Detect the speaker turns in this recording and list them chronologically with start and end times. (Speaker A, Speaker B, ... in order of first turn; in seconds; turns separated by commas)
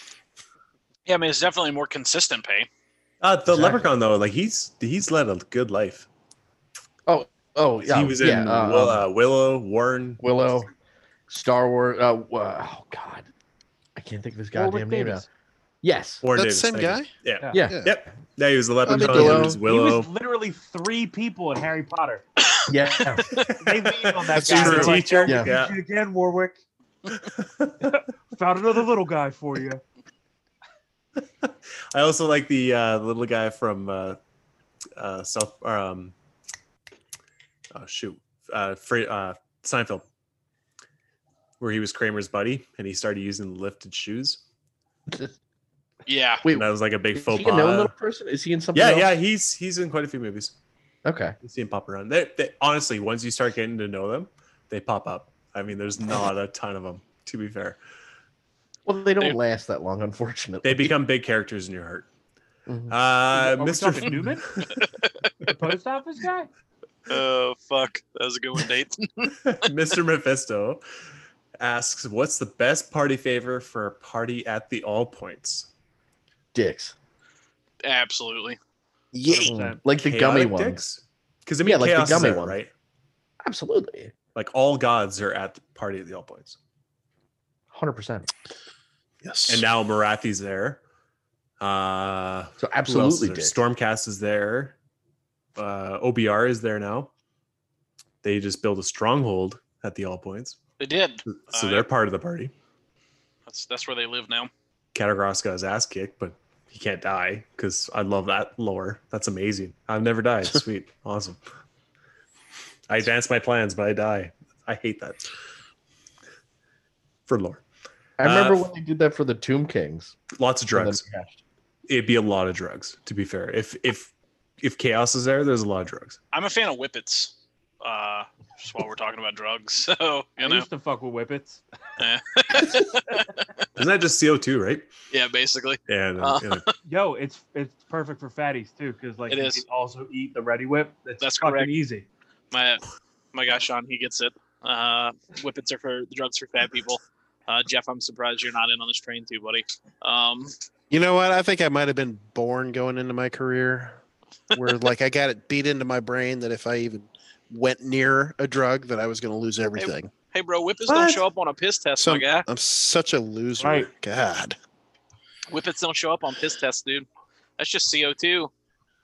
Speaker A: 1.1-2.7, Speaker B: 3.2-6.1, Speaker C: 3.5-3.9, Speaker C: 7.1-9.0, Speaker B: 7.9-10.2, Speaker C: 10.2-10.7, Speaker C: 11.3-13.3, Speaker C: 13.9-15.2, Speaker D: 14.5-15.2, Speaker C: 15.8-16.2, Speaker B: 16.2-20.1, Speaker E: 16.3-17.9, Speaker C: 17.5-17.8, Speaker C: 18.9-19.6, Speaker E: 18.9-19.6, Speaker D: 19.6-22.2, Speaker C: 22.7-23.5, Speaker B: 23.4-25.8, Speaker D: 23.5-26.6, Speaker E: 24.4-24.9, Speaker C: 25.2-25.5, Speaker B: 27.1-27.9, Speaker D: 27.8-29.8, Speaker B: 31.2-34.2, Speaker B: 35.0-36.1, Speaker B: 37.7-40.0, Speaker B: 41.6-44.4, Speaker A: 46.0-46.4, Speaker C: 46.4-49.1, Speaker B: 46.5-47.9, Speaker B: 48.7-50.5, Speaker C: 51.0-51.4, Speaker B: 51.4-57.8, Speaker C: 58.9-60.9, Speaker B: 60.6-62.1, Speaker C: 62.7-62.9, Speaker B: 62.9-64.8, Speaker D: 63.3-64.5, Speaker A: 64.8-65.2, Speaker D: 65.4-66.5, Speaker A: 67.1-69.3, Speaker B: 69.4-70.8, Speaker B: 71.6-75.7, Speaker C: 76.5-76.9, Speaker A: 77.8-78.6, Speaker E: 79.1-79.5, Speaker D: 79.3-79.8, Speaker C: 79.5-80.8, Speaker B: 80.0-82.7, Speaker C: 81.6-82.6, Speaker C: 83.4-84.1, Speaker B: 84.3-86.6, Speaker C: 87.7-88.3, Speaker E: 89.2-89.6, Speaker B: 89.5-90.8, Speaker B: 91.6-94.7, Speaker C: 92.6-93.5, Speaker B: 95.5-97.1, Speaker B: 98.2-100.6, Speaker A: 100.8-101.8, Speaker B: 101.3-102.5, Speaker A: 103.5-104.5, Speaker B: 104.9-111.4, Speaker B: 112.9-115.3, Speaker B: 117.3-117.6, Speaker C: 118.2-120.2, Speaker B: 118.2-118.7, Speaker B: 120.3-121.0, Speaker C: 120.7-121.4, Speaker B: 121.9-126.2, Speaker A: 126.3-130.7, Speaker D: 130.4-131.6, Speaker A: 132.0-133.3, Speaker B: 133.8-134.9, Speaker A: 135.1-136.7, Speaker B: 135.9-136.6, Speaker D: 136.9-142.1, Speaker A: 139.3-139.6, Speaker A: 141.2-141.7, Speaker A: 142.5-150.5, Speaker E: 150.9-154.0, Speaker E: 154.5-160.1, Speaker A: 159.7-162.4, Speaker B: 160.9-161.2, Speaker E: 162.0-164.6, Speaker D: 163.6-163.9, Speaker A: 165.5-167.1, Speaker A: 167.6-168.5